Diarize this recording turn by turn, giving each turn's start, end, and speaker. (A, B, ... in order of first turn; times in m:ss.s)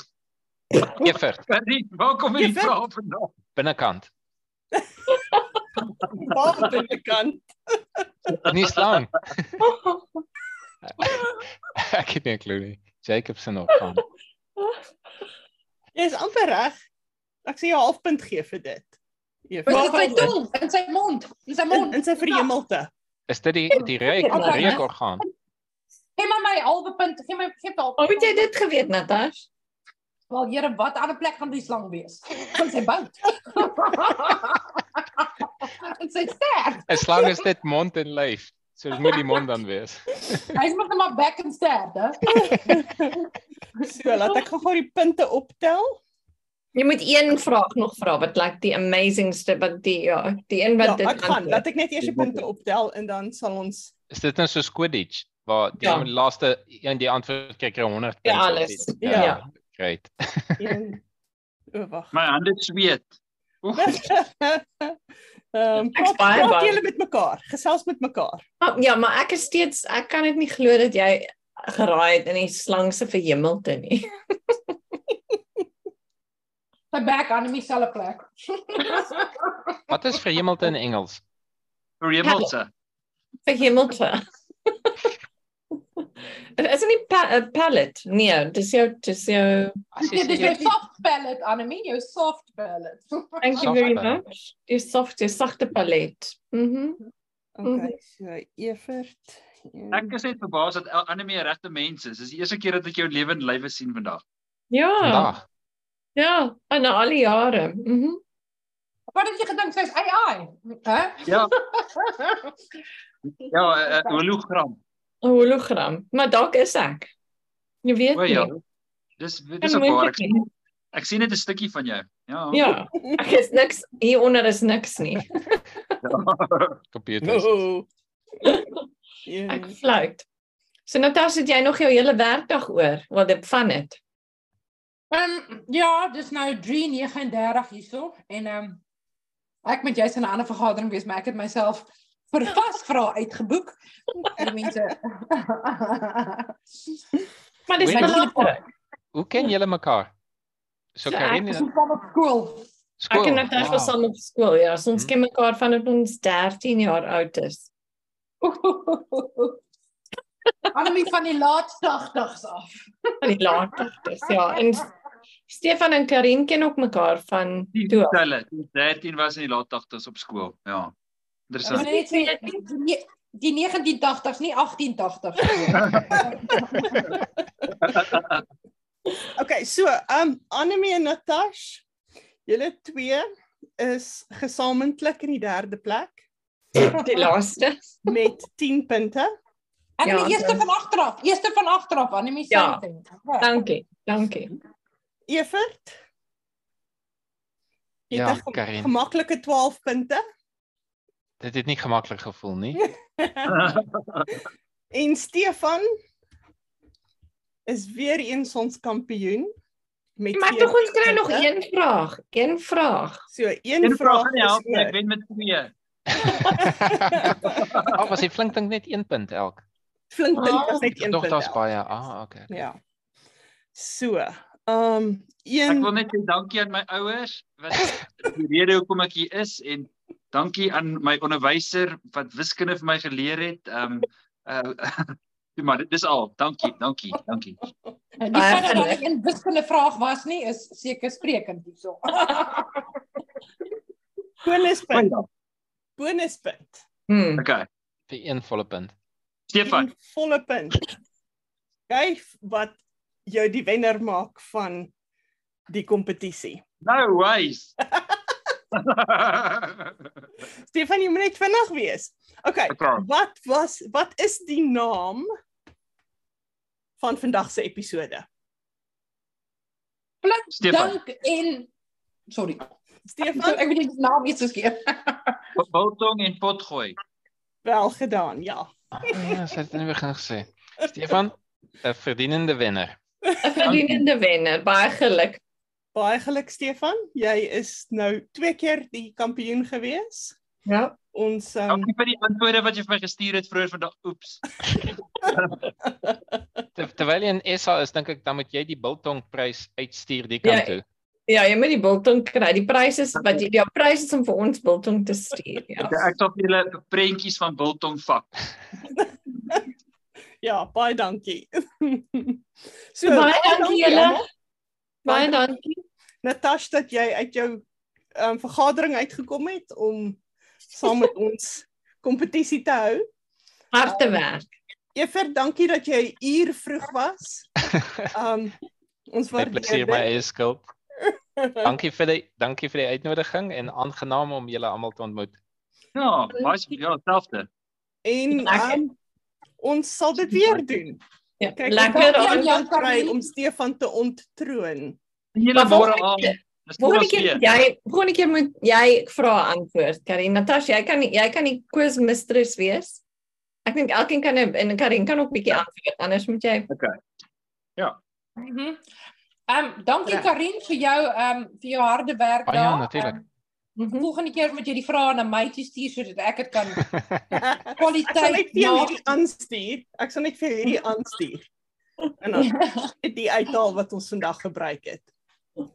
0:00.8-0:03.4 A
0:00.9-0:01.4 B
0:02.4-0:02.8 C
0:03.5-0:04.1 B
0:06.1-0:08.3 C
0:08.5-0:09.6 B
0:09.6-0:10.0 D
0:11.0-0:14.0 B
0:15.9-0:16.8 C
0:17.4-0:18.9 C
0:19.5-0:20.1 C
0:19.6-0:22.1 E
0:19.7-0:20.3 D
0:21.7-0:22.9 C
0:23.3-0:25.2 B
0:23.7-0:24.8 D
0:24.3-0:24.8 E
0:26.2-0:28.4 E
0:28.0-0:29.5 D
0:30.3-0:37.3 E
0:36.9-0:40.6 B
0:40.5-0:43.1 E
0:42.3-0:43.1 C
0:43.8-0:46.0 C
0:46.7-0:51.6 D
0:50.8-0:53.9 C
0:52.0-0:52.3 A
0:54.1-1:00.6 B
0:55.8-0:56.1 D
0:58.2-0:59.4 D
0:59.0-0:59.4 C
1:00.6-1:01.0 C
1:01.7-1:02.1 C
1:02.1-1:04.1 A
1:03.8-1:05.0 C
1:05.5-1:08.4 C
1:05.9-1:06.8 D
1:08.6-1:14.1 D
1:16.9-1:19.5 E
1:19.9-1:21.2 B
1:22.0-1:22.7 A
1:22.2-1:22.5 D
1:23.4-1:24.2 D
1:24.8-1:25.1 D
1:26.6-1:29.8 D
1:29.9-1:30.7 B
1:30.0-1:33.7 E
1:33.4-1:37.0 D
1:33.6-1:34.2 B
1:37.6-1:40.1 C
1:37.6-1:37.9 D
1:39.9-1:44.2 A
1:44.7-1:45.3 D
1:45.0-1:45.4 B
1:46.2-1:48.2 D
1:49.1-1:52.5 E
1:51.2-1:51.5 A
1:53.3-1:54.8 A
1:55.2-1:57.1 D
1:57.8-1:58.5 D
1:58.1-1:58.6 A
1:59.2-2:02.7 A
1:59.6-2:00.4 D
2:02.5-2:05.9 D
2:06.0-2:06.8 A
2:06.9-2:07.6 B
2:07.2-2:07.9 C
2:08.4-2:08.7 D
2:09.2-2:09.8 C
2:09.5-2:10.2 D
2:10.8-2:14.0 D
2:15.1-2:18.8 E
2:19.6-2:26.5 E
2:27.7-2:28.6 D
2:27.8-2:28.2 B
2:27.9-2:28.6 E
2:29.1-2:30.1 B
2:30.9-2:31.7 B
2:31.1-2:31.5 D
2:31.5-2:32.7 E
2:33.0-2:33.9 B
2:33.1-2:37.7 D
2:38.4-2:39.6 E
2:40.7-2:43.7 E
2:43.2-2:44.9 D
2:45.5-2:48.2 D
2:47.7-2:50.9 A
2:51.5-2:51.9 A
2:51.6-2:56.9 E
2:51.7-2:52.6 D
2:55.7-2:56.2 A
2:57.7-2:58.4 A
2:59.4-3:01.8 C
3:02.4-3:03.2 C
3:03.8-3:06.2 C
3:06.8-3:07.8 D
3:08.1-3:09.3 C
3:10.0-3:13.5 E
3:10.0-3:10.7 D
3:12.5-3:12.8 D
3:13.4-3:14.5 D
3:15.3-3:16.0 C
3:18.1-3:20.2 C
3:18.1-3:18.9 B
3:21.4-3:22.8 B
3:22.8-3:23.6 C
3:23.4-3:24.4 A
3:24.9-3:25.8 C
3:27.6-3:29.5 C
3:30.2-3:31.5 C
3:30.3-3:33.2 D
3:33.3-3:35.0 C
3:33.8-3:35.7 A
3:36.5-3:37.6 C
3:36.9-3:37.3 B
3:37.4-3:38.0 A
3:37.9-3:39.6 B
3:40.1-3:41.6 C
3:40.3-3:40.9 D
3:41.0-3:42.5 B
3:42.5-3:42.8 C
3:43.7-3:45.9 C
3:45.7-3:57.6 A
3:58.2-4:02.8 E
3:58.3-3:59.0 D
4:04.4-4:05.1 C
4:04.9-4:05.2 A
4:06.0-4:06.8 C
4:07.1-4:07.4 D
4:07.4-4:07.6 A
4:08.1-4:08.9 B
4:09.5-4:09.9 A
4:09.6-4:10.8 C
4:11.9-4:14.9 C
4:15.7-4:16.6 C
4:16.8-4:17.7 A
4:17.9-4:18.2 C
4:18.7-4:20.2 A
4:20.7-4:25.3 C
4:22.7-4:23.0 A
4:27.0-4:28.3 C
4:30.2-4:31.7 E
4:30.5-4:31.0 A
4:32.3-4:32.6 E
4:33.1-4:33.6 C
4:33.3-4:35.4 E
4:35.6-4:37.0 A
4:37.6-4:39.2 C
4:39.0-4:43.0 B
4:43.4-4:45.4 D
4:45.9-4:50.4 C
4:50.6-4:51.0 D
4:51.1-4:51.9 C
4:51.7-4:55.7 A
4:56.7-5:00.8 B
5:00.4-5:06.0 D
5:05.8-5:08.4 A
5:10.4-5:14.2 C
5:13.0-5:14.2 D
5:15.0-5:15.8 D
5:15.0-5:15.4 C
5:16.2-5:17.6 C
5:18.2-5:20.2 C
5:20.7-5:23.0 C
5:23.7-5:24.5 D
5:24.9-5:28.6 C
5:29.1-5:30.1 C
5:29.4-5:30.7 B
5:31.4-5:31.7 C
5:31.6-5:35.3 B
5:35.9-5:37.5 A
5:38.0-5:38.9 C
5:38.3-5:38.8 D
5:39.6-5:41.0 C
5:41.4-5:42.6 D
5:41.6-5:45.0 C
5:41.8-5:43.2 E
5:45.3-5:47.4 A
5:45.5-5:53.0 D
5:53.6-5:56.7 D
5:56.7-5:57.0 A
5:58.4-5:58.8 E
5:59.5-6:03.2 E
6:00.0-6:00.3 C
6:02.5-6:03.2 B
6:03.8-6:04.1 D
6:04.0-6:06.8 E
6:06.9-6:07.4 B
6:07.4-6:11.4 C
6:07.7-6:09.0 E
6:12.2-6:15.1 C
6:12.5-6:12.9 E